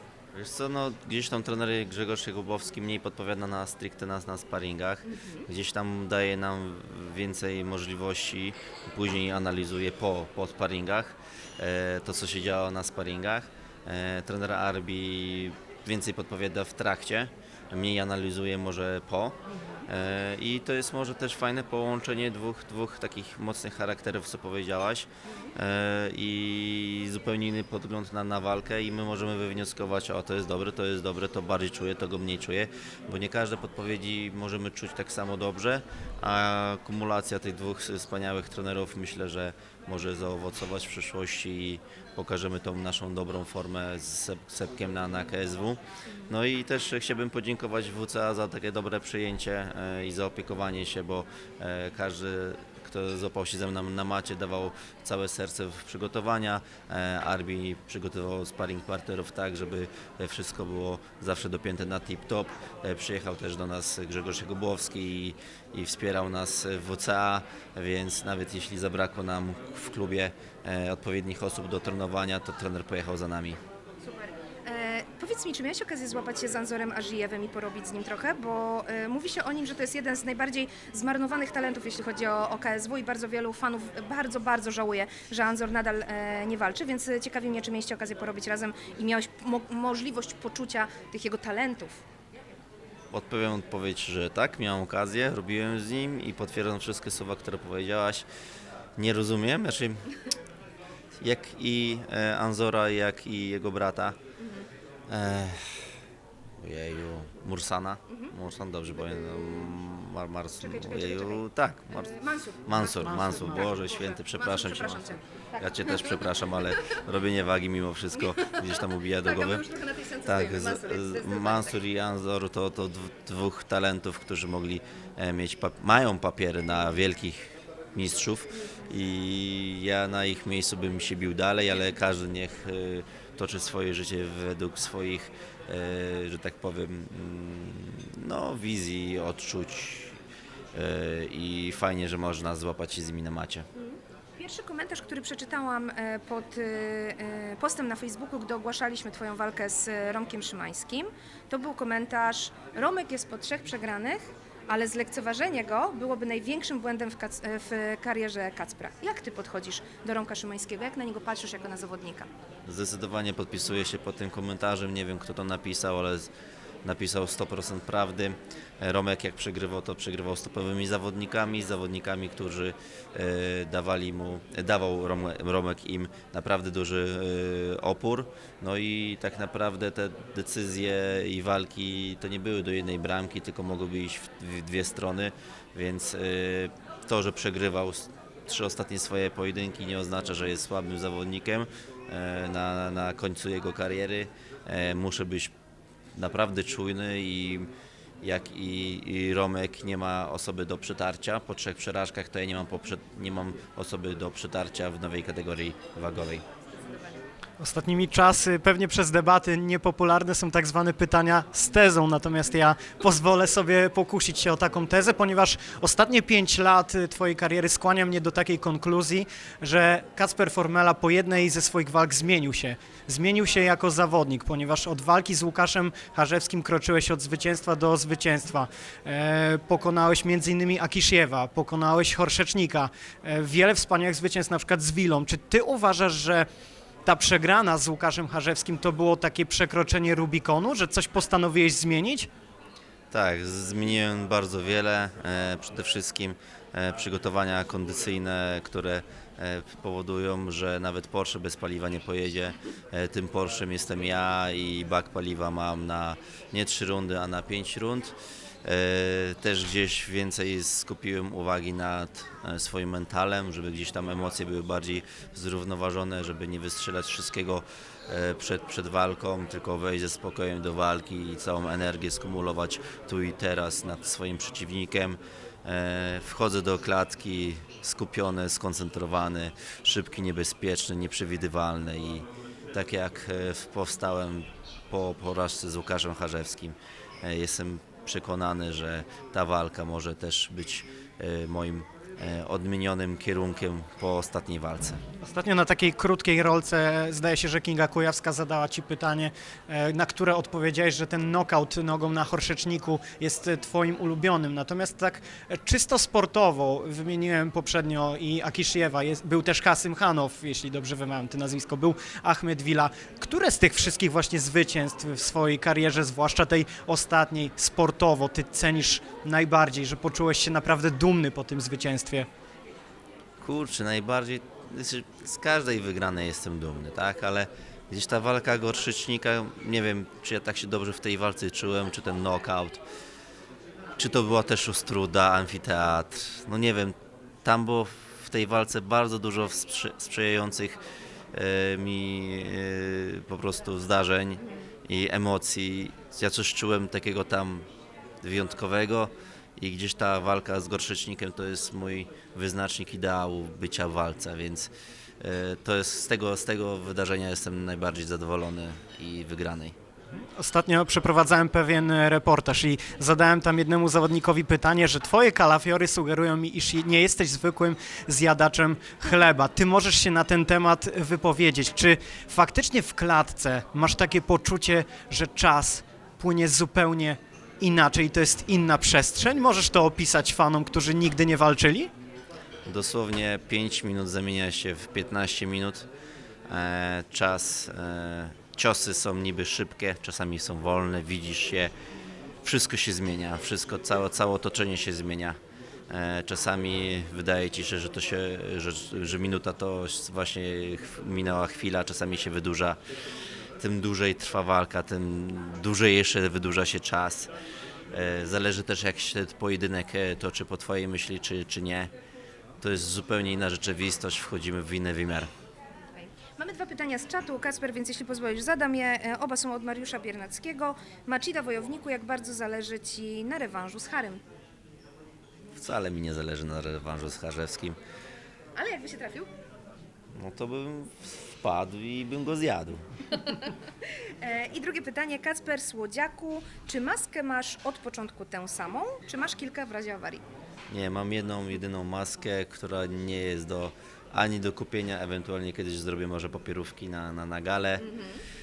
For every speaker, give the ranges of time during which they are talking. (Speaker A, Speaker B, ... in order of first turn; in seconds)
Speaker A: 0.3-73.6, 93.1-98.3, 99.0-100.1, 101.2-104.2, 105.1-105.9, 106.6-119.7, 120.2-140.2, 140.7-143.7, 162.7-166.3, 166.8-195.5, 196.2-197.7, 198.2-206.4, 243.1-295.0, 323.4-332.8, 334.0-340.8, 341.3-347.7, 348.2-359.8, 382.7-385.9, 386.5-391.7, 392.4-395.4, 395.9-402.8, 403.6-407.3, 407.9-411.9, 412.6-415.3, 425.6-427.8, 430.1-432.8, 440.7-447.9
Speaker B: 5.1-5.4, 74.0-92.0, 104.4-104.7, 108.1-108.3, 109.2-109.7, 110.6-116.8, 118.2-121.8, 143.8-162.3, 206.8-207.2, 416.0-424.2, 428.6-429.3, 433.3-440.2, 447.8-448.2
Speaker C: 207.6-236.5, 237.1-242.3, 295.2-322.3, 360.4-381.9